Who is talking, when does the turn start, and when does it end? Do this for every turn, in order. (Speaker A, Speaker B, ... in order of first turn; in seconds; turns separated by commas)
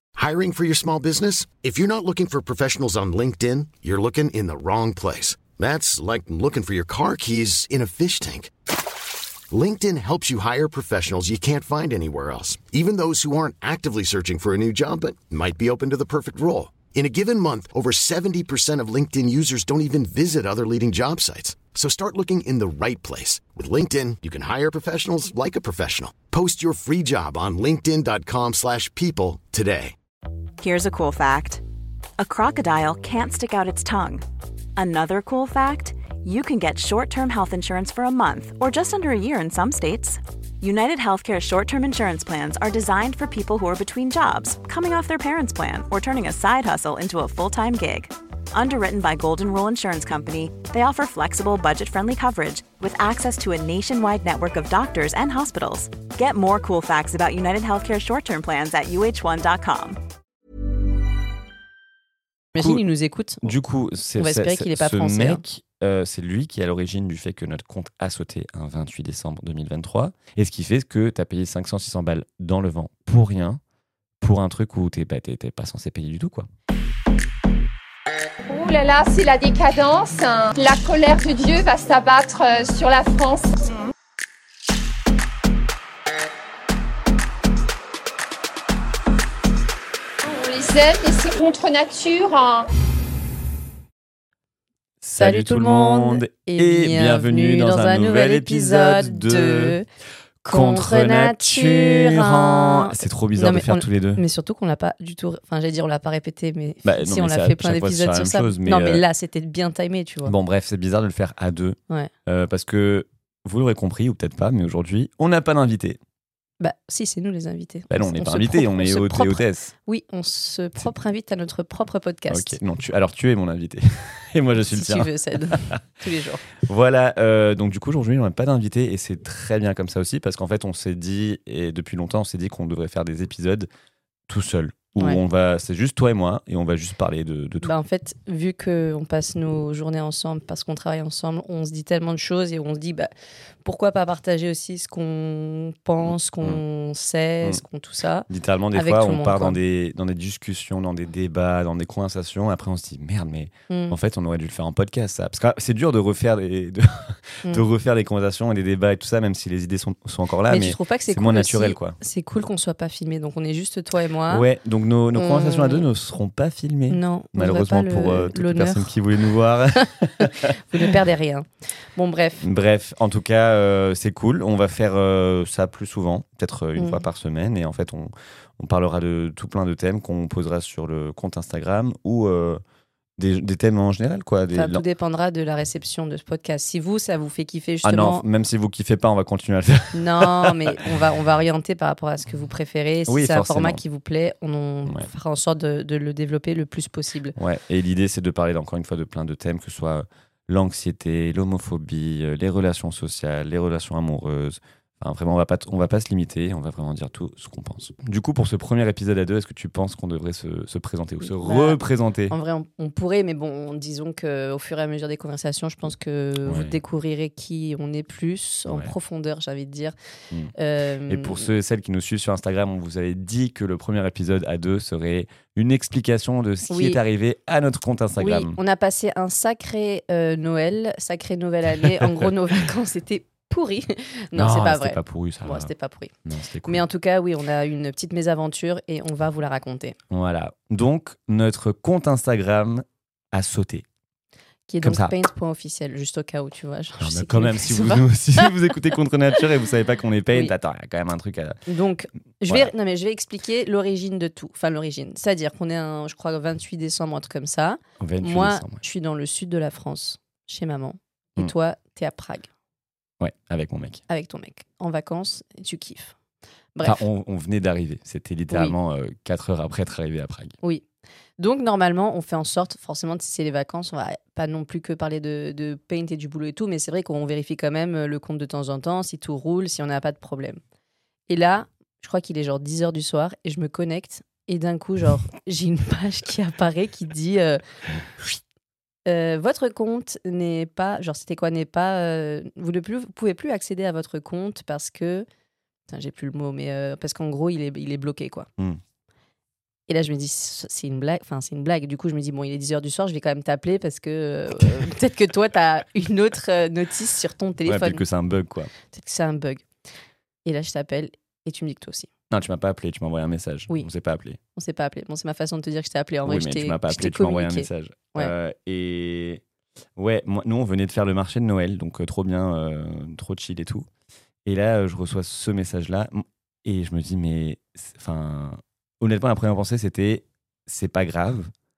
Speaker A: 0.2-8.5, Speaker A: 9.5-29.9, Speaker B: 30.6-31.6, Speaker B: 32.2-34.2, Speaker B: 34.8-60.0, Speaker C: 62.5-63.5, Speaker D: 62.6-62.8, Speaker D: 63.4-73.6, Speaker C: 64.2-65.4, Speaker D: 74.2-76.5, Speaker E: 78.5-83.6, Speaker E: 90.2-92.7, Speaker D: 95.0-99.8, Speaker C: 95.2-99.9, Speaker D: 100.5-104.2, Speaker C: 100.5-110.3, Speaker D: 106.8-109.0, Speaker D: 110.2-116.0, Speaker C: 116.6-122.6, Speaker D: 117.9-119.7, Speaker D: 122.3-125.8, Speaker C: 124.6-126.4, Speaker D: 126.6-133.7, Speaker D: 134.3-137.8, Speaker C: 137.6-143.1, Speaker C: 143.6-149.6, Speaker D: 148.3-162.0, Speaker C: 153.7-154.0, Speaker C: 160.5-164.5, Speaker D: 164.3-170.9, Speaker C: 165.2-165.8, Speaker C: 166.9-168.9, Speaker C: 170.5-172.5, Speaker D: 172.4-182.6, Speaker C: 176.8-177.1, Speaker D: 183.2-184.8, Speaker C: 184.5-188.2, Speaker D: 187.8-190.8, Speaker C: 189.9-197.3, Speaker D: 193.1-193.8, Speaker D: 197.4-212.3, Speaker C: 211.2-211.8, Speaker C: 212.3-219.9, Speaker D: 216.4-216.8, Speaker D: 218.7-218.9, Speaker C: 220.6-221.5, Speaker D: 221.1-228.6, Speaker C: 226.7-227.0, Speaker C: 228.2-236.1, Speaker D: 231.8-232.3, Speaker D: 234.3-235.7, Speaker D: 236.2-236.9, Speaker C: 236.7-240.0, Speaker D: 240.1-243.9, Speaker C: 244.7-248.5, Speaker D: 244.8-245.2, Speaker D: 247.0-251.6, Speaker C: 251.7-262.5, Speaker D: 258.0-258.8, Speaker D: 263.2-264.0, Speaker C: 264.1-266.1, Speaker D: 266.8-270.6, Speaker C: 271.4-280.6, Speaker C: 281.3-287.6, Speaker C: 289.1-295.3, Speaker C: 295.9-298.5, Speaker C: 299.9-308.0, Speaker D: 307.6-308.7, Speaker C: 308.9-309.7, Speaker C: 310.4-312.1, Speaker D: 312.3-314.4, Speaker C: 314.6-318.3, Speaker D: 316.2-319.4, Speaker D: 320.0-323.9, Speaker D: 324.4-331.5